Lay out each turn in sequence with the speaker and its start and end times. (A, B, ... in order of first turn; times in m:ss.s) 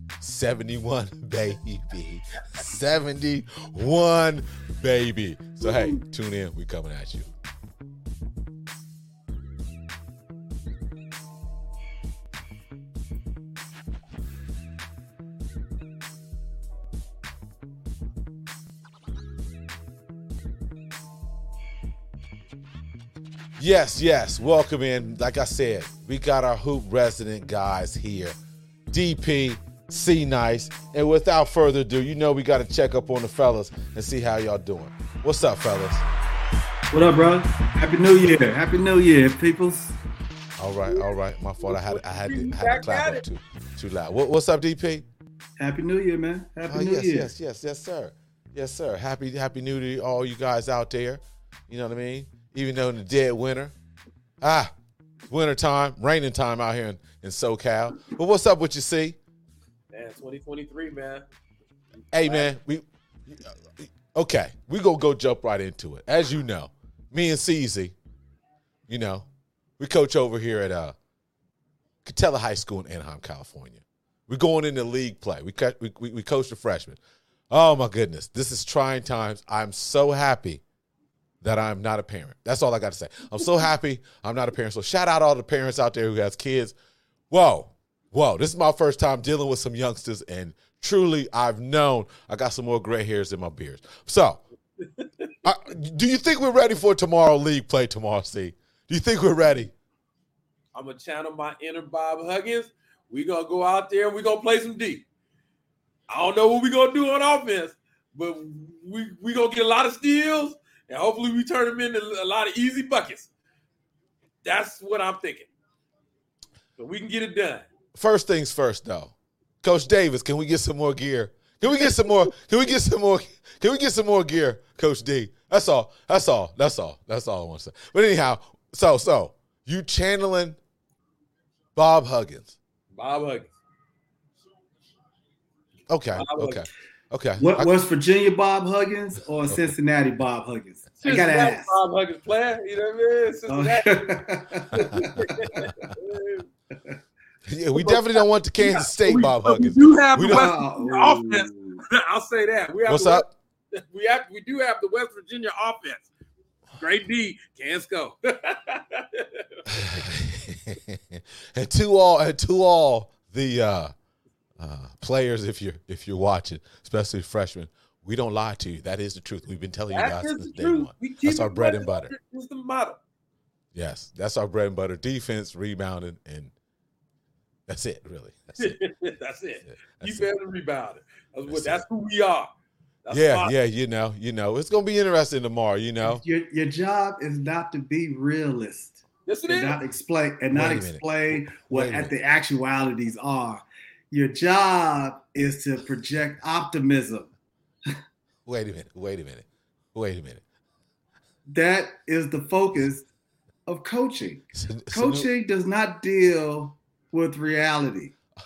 0:00.2-0:07.3 A
0:23.6-0:28.3 A
0:28.9-0:36.0 A
0:36.9-0:40.0 B
0:40.6-0:45.0 A
0:41.6-0:43.2 C
0:45.6-0:47.3 B
0:46.7-0:53.7 A
0:54.4-0:54.7 A
0:55.3-0:59.2 A
0:59.9-1:01.3 C
1:02.1-1:07.9 A
1:02.2-1:02.5 C
1:08.9-1:09.3 A
1:09.8-1:11.0 A
1:12.0-1:20.6 A
1:21.4-1:26.8 A
1:27.3-1:34.4 A
1:35.0-1:35.3 C
1:35.4-1:39.7 A
1:40.7-1:45.1 C
1:46.1-1:53.3 C
1:54.4-1:55.5 C
1:56.8-1:57.7 C
1:58.0-2:10.6 A
2:11.8-2:12.6 A
2:12.9-2:13.5 C
2:15.9-2:17.7 A
2:16.1-2:16.7 C
2:17.4-2:21.7 B
2:21.0-2:26.5 C
2:23.5-2:25.7 B
2:25.2-2:25.7 A
2:27.5-2:30.5 A
2:27.7-2:36.1 C
2:30.2-2:31.8 B
2:32.9-2:33.3 A
2:36.8-2:39.6 C
2:39.7-2:43.9 A
2:44.6-2:52.1 A
2:49.9-2:53.0 C
2:53.7-2:56.5 A
2:57.7-2:58.8 A
2:58.6-3:02.5 C
2:59.7-3:00.3 A
3:01.5-3:01.8 A
3:03.0-3:03.5 C
3:03.1-3:06.2 A
3:06.0-3:17.3 B
3:09.2-3:09.8 C
3:10.5-3:12.1 A
3:18.5-3:20.4 A
3:21.5-3:23.1 B
3:23.7-3:28.1 B
3:24.6-3:25.3 A